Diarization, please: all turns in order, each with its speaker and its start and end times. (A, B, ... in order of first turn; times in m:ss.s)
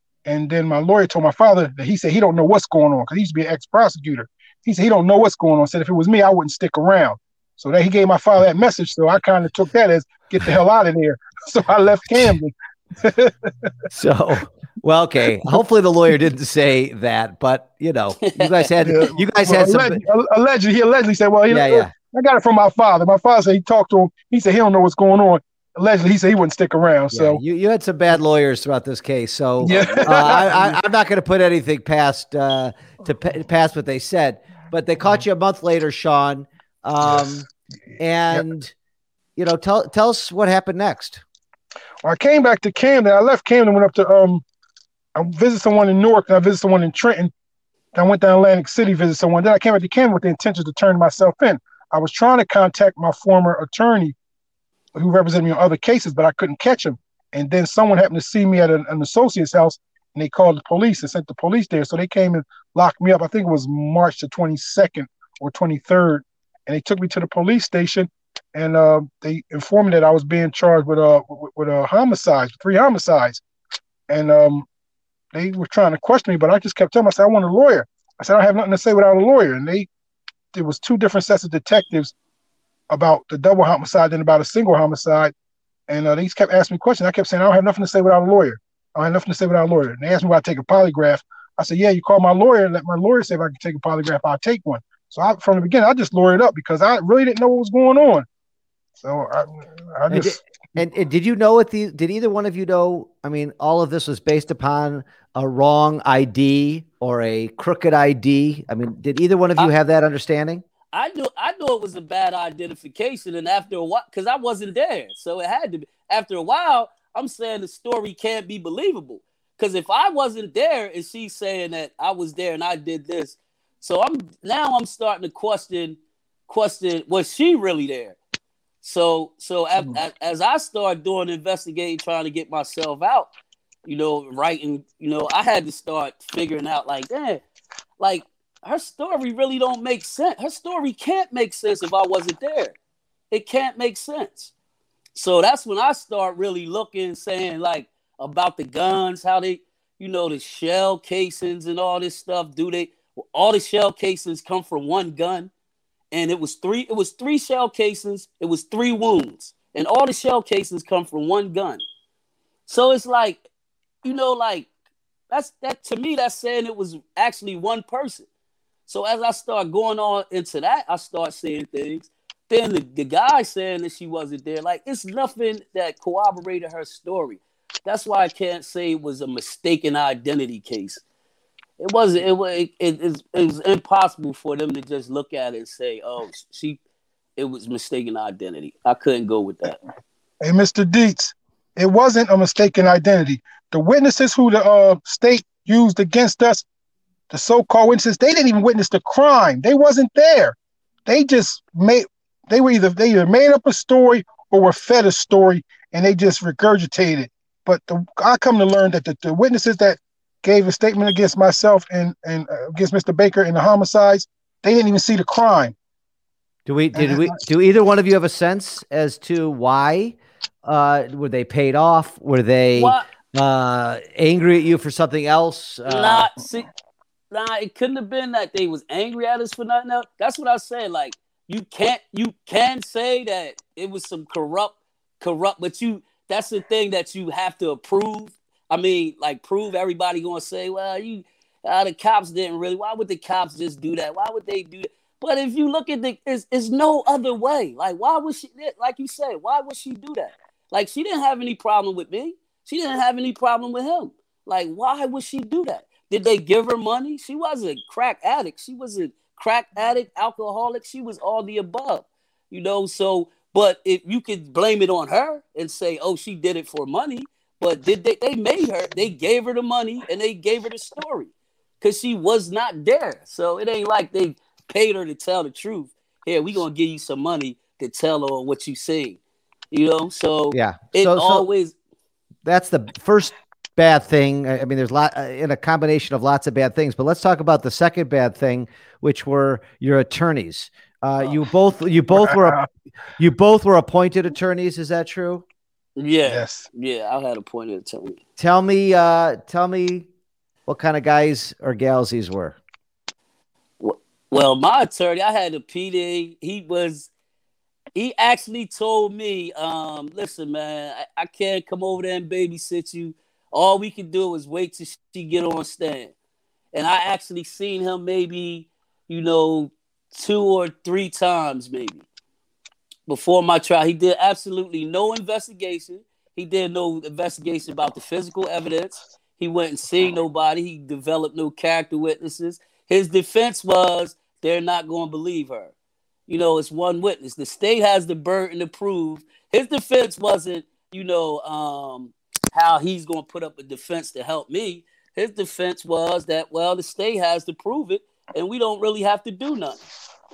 0:00.2-0:13.7 A
0:13.9-0:20.0 B
0:18.2-0:18.7 C
0:18.8-0:27.4 A
0:21.5-0:21.9 B
0:27.1-0:37.5 B
0:29.6-0:30.8 A
0:29.7-0:30.3 C
0:37.0-0:37.3 A
0:38.0-0:38.7 B
0:39.4-0:41.2 B
0:42.0-0:44.4 A
0:45.2-0:47.3 A
0:47.9-0:54.2 A
0:55.0-1:13.4 A
1:14.1-1:14.7 A
1:15.3-1:19.9 A
1:20.5-1:22.1 A
1:22.9-1:25.3 A
1:25.9-1:38.3 A
1:39.0-1:40.4 A
1:40.1-1:50.6 B
1:50.9-2:08.2 C
2:08.8-2:13.3 C
2:13.8-2:17.4 C
2:18.0-2:22.8 C
2:23.3-2:24.5 C
2:25.1-2:35.5 C
2:36.1-2:41.8 C
2:42.7-2:43.4 C
2:44.0-2:44.7 C
2:45.3-2:48.3 C
2:48.9-3:01.0 C
3:01.8-3:06.8 C
3:07.4-3:09.8 C
3:10.4-3:16.6 A
3:17.3-3:20.6 A
3:21.1-3:35.8 A
3:36.7-3:46.3 B
3:37.0-3:37.4 A
3:42.8-3:43.1 C
3:45.9-3:46.7 C
3:47.3-4:39.2 C
4:39.7-4:41.8 C
4:40.5-4:41.5 B
4:42.4-4:52.6 B
4:52.1-4:52.7 A
4:53.2-4:55.4 B
4:56.0-4:58.2 C
4:56.3-4:56.7 A
4:58.4-5:00.1 B
5:00.7-5:02.6 B
5:03.8-5:07.1 C
5:07.9-5:16.1 C
5:16.7-5:22.0 C
5:23.1-5:35.7 C
5:36.3-5:49.8 C